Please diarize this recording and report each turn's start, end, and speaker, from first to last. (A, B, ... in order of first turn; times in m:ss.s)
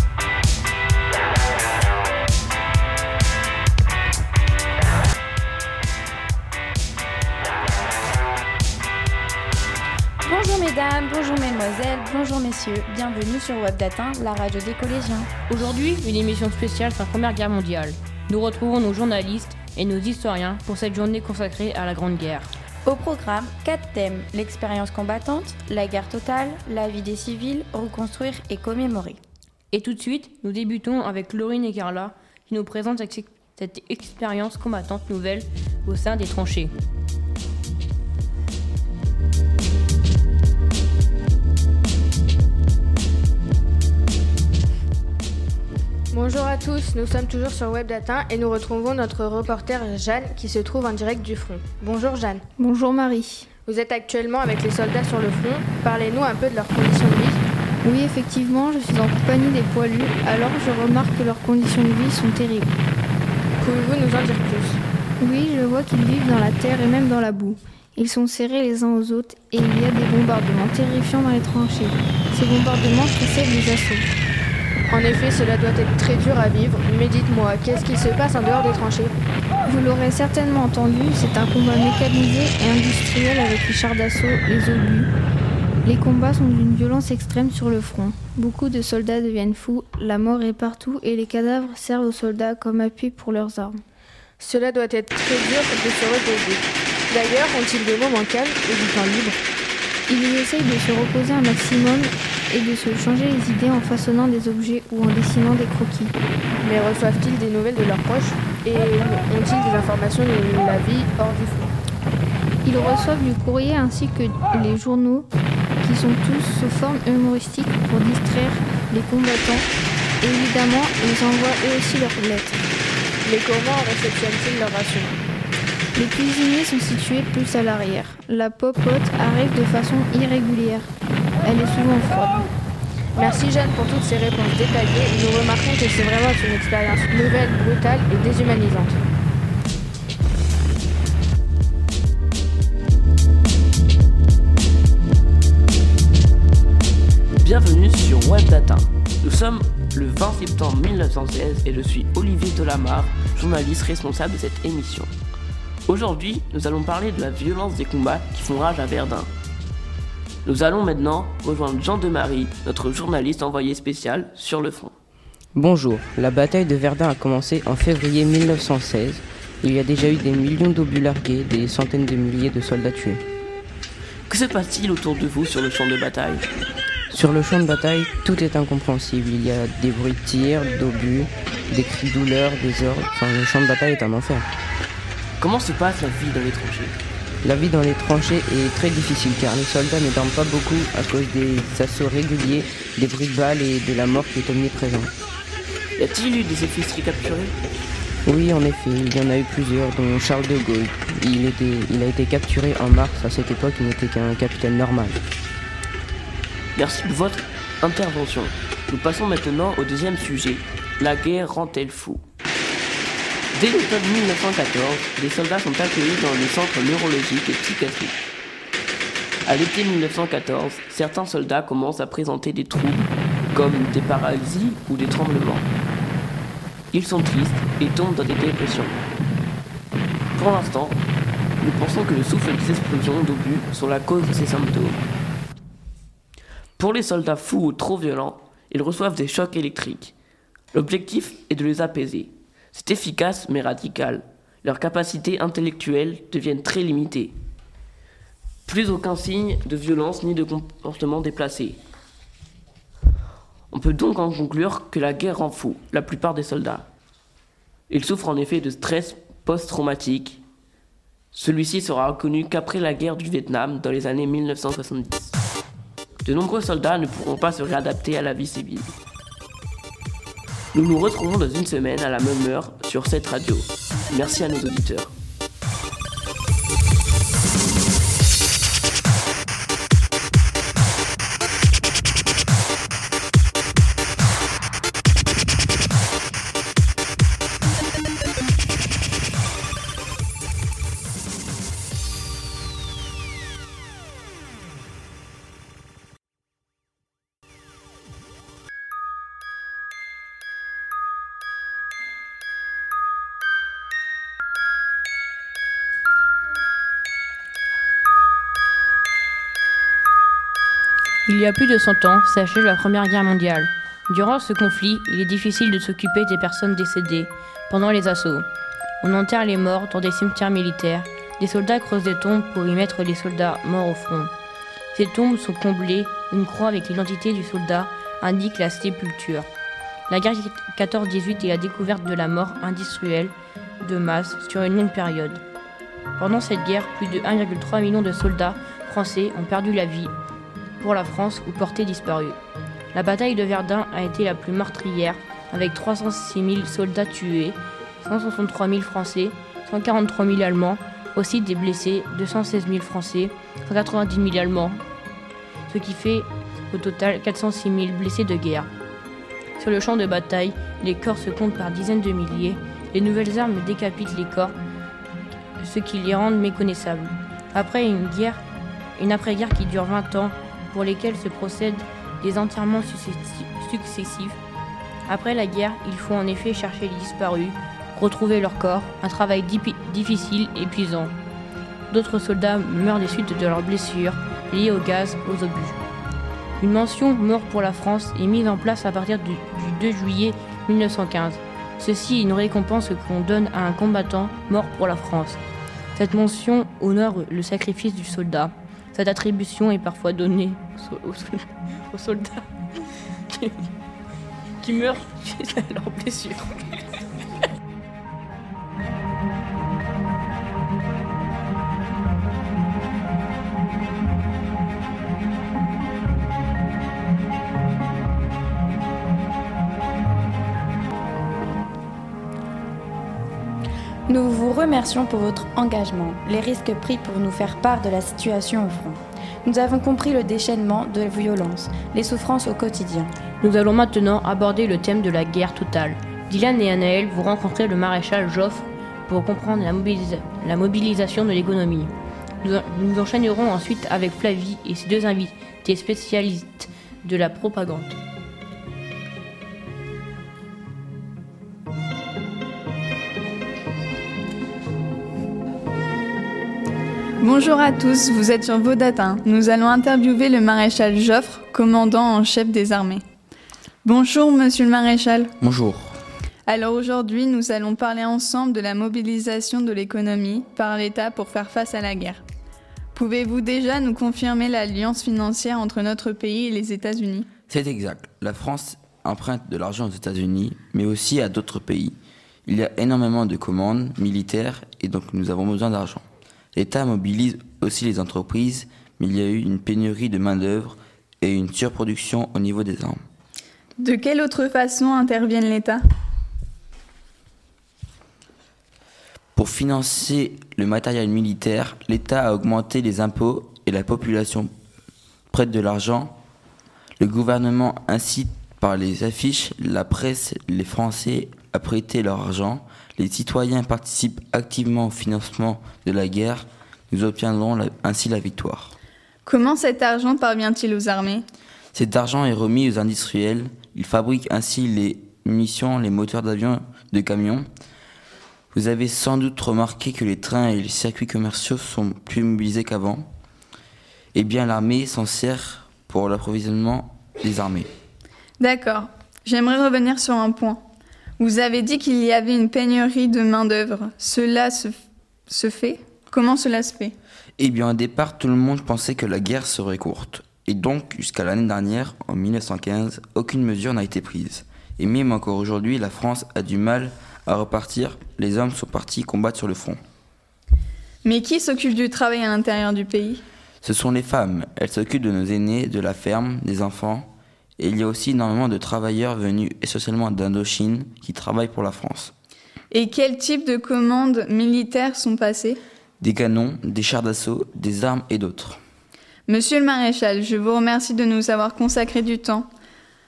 0:10.2-0:15.3 A
0:15.5-0:22.5 B
0:22.8-0:29.2 A
0:29.7-0:36.7 B
0:46.1-0:52.4 C
0:52.6-0:53.5 D
0:53.7-0:57.4 C
0:57.8-1:02.8 D
1:03.6-1:04.8 C
1:05.2-1:14.1 D
1:14.9-1:19.1 C
1:19.6-1:25.1 D
1:25.8-1:33.8 D
1:34.4-1:39.4 C
1:40.1-1:46.2 D
1:46.6-1:51.7 C
1:52.6-1:55.3 D
1:55.8-1:59.7 D
2:00.2-2:02.6 D
2:03.2-2:05.2 C
2:05.9-2:10.9 D
2:11.4-2:12.5 D
2:13.2-2:19.0 C
2:27.4-2:35.1 E
2:35.9-2:39.3 E
2:40.4-2:45.0 E
2:45.6-2:53.2 F
2:54.3-2:56.5 E
2:57.1-3:04.5 F
3:05.4-3:07.0 E
3:07.4-3:15.1 F
3:16.0-3:17.5 E
3:18.2-3:25.2 F
3:26.8-3:32.2 E
3:33.5-3:38.2 E
3:39.4-3:45.7 E
3:46.9-3:49.0 E
3:50.4-3:51.0 E
3:51.6-3:55.0 E
3:56.8-4:00.1 E
4:00.7-4:07.3 E
4:08.7-4:11.8 E
4:13.7-4:16.9 E
4:17.9-4:20.4 E
4:21.3-4:25.4 E
4:26.2-4:28.9 E
4:30.7-4:35.1 E
5:11.3-5:18.5 B
5:19.0-5:24.3 B
5:24.9-5:29.5 B
5:30.1-5:35.4 B
5:36.2-5:40.1 B
5:40.8-5:42.4 B
5:42.9-5:54.8 B
5:55.7-5:58.7 B
5:59.6-6:04.6 B
6:05.6-6:08.4 B
6:09.0-6:14.4 B
6:15.1-6:21.1 B
6:21.9-6:25.8 B
6:26.6-6:35.4 B
6:36.0-6:42.4 B
6:43.3-6:43.7 B
6:44.6-6:46.8 B
7:04.1-7:13.1 A
7:13.4-7:21.9 B
7:22.4-7:28.0 B
7:37.2-7:43.0 G
7:43.8-7:45.3 G
7:45.4-7:46.0 H
7:46.5-7:52.2 G
7:53.0-7:57.3 G
7:57.5-8:13.0 H
8:13.8-8:15.8 G
8:19.4-8:24.5 H
8:25.3-8:26.2 H
8:27.0-8:38.7 H
8:39.2-8:41.2 G
8:41.7-8:47.5 H
8:48.5-8:53.1 H
8:54.1-8:57.7 H
8:58.4-9:00.6 G
9:01.2-9:04.8 G
9:05.3-9:06.9 G
9:07.4-9:19.8 H
9:21.0-9:23.2 G
9:23.6-9:32.1 H
9:32.7-9:35.6 G
9:36.0-9:38.6 H
9:39.3-9:42.5 G